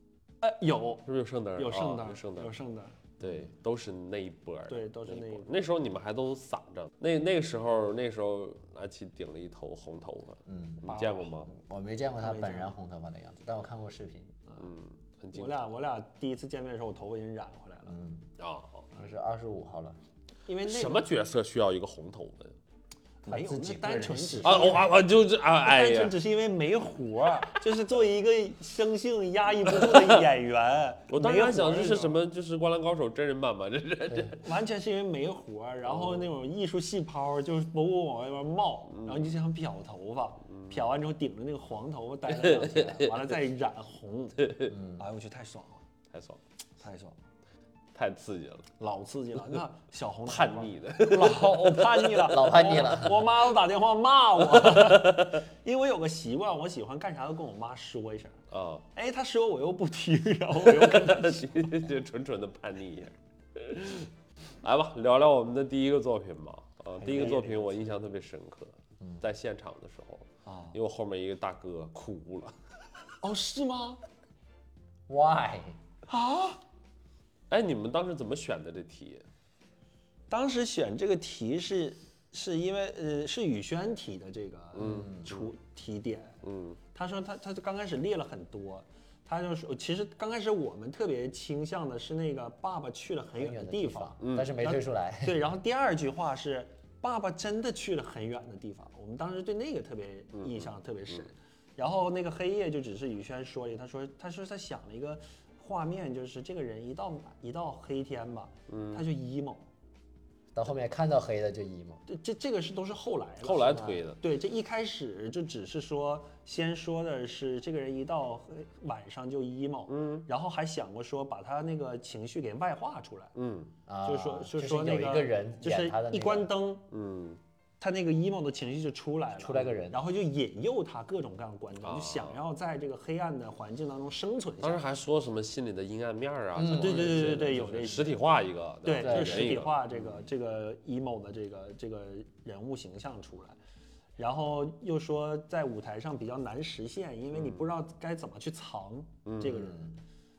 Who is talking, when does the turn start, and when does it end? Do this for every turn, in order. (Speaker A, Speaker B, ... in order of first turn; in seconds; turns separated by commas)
Speaker A: 0.4-3.0, Speaker B: 1.1-2.5, Speaker B: 3.2-11.5, Speaker C: 3.2-3.5, Speaker A: 4.7-5.5, Speaker C: 10.5-10.9, Speaker A: 10.9-11.4, Speaker C: 11.5-14.4, Speaker A: 12.2-12.8, Speaker B: 14.6-15.6, Speaker A: 15.3-18.0, Speaker C: 17.9-18.3, Speaker B: 18.4-18.9, Speaker C: 18.9-20.0, Speaker A: 20.5-21.1, Speaker B: 20.7-22.6, Speaker A: 23.2-24.9, Speaker C: 23.3-24.9, Speaker B: 24.4-26.2, Speaker A: 25.6-32.2, Speaker B: 29.7-30.2, Speaker B: 31.1-34.4, Speaker A: 34.3-45.8, Speaker B: 35.9-36.3, Speaker B: 38.9-39.4, Speaker B: 42.3-43.2, Speaker B: 44.4-44.8, Speaker C: 44.7-45.0, Speaker B: 46.1-46.4, Speaker A: 46.8-47.2, Speaker B: 48.0-48.7, Speaker A: 48.8-58.4, Speaker B: 50.2-52.2, Speaker C: 52.3-53.3, Speaker B: 54.5-55.4, Speaker B: 58.5-58.9, Speaker A: 58.9-61.6, Speaker B: 60.6-64.1, Speaker B: 64.6-72.5, Speaker A: 67.0-67.8, Speaker A: 70.5-70.8, Speaker A: 73.2-74.0, Speaker C: 75.1-75.8, Speaker A: 76.1-76.6, Speaker B: 77.5-79.2, Speaker A: 80.3-86.4, Speaker C: 84.8-85.2, Speaker B: 84.8-85.5, Speaker B: 86.4-86.8, Speaker A: 86.9-109.7, Speaker C: 93.4-95.3, Speaker B: 94.2-94.6, Speaker B: 100.4-100.7, Speaker B: 108.7-109.0, Speaker C: 110.5-112.0, Speaker A: 112.1-123.3, Speaker B: 113.4-114.2, Speaker C: 113.7-114.0, Speaker B: 119.9-120.3, Speaker B: 123.4-123.7, Speaker C: 123.9-126.5, Speaker A: 124.0-126.9, Speaker B: 126.9-127.4, Speaker A: 127.8-134.8, Speaker C: 129.4-130.0, Speaker B: 131.8-132.4, Speaker B: 134.6-139.9, Speaker C: 136.6-137.6, Speaker A: 136.7-138.2, Speaker A: 138.8-143.6, Speaker C: 139.0-139.6, Speaker A: 144.2-149.9, Speaker B: 147.3-147.7, Speaker B: 149.2-149.7, Speaker C: 149.6-149.9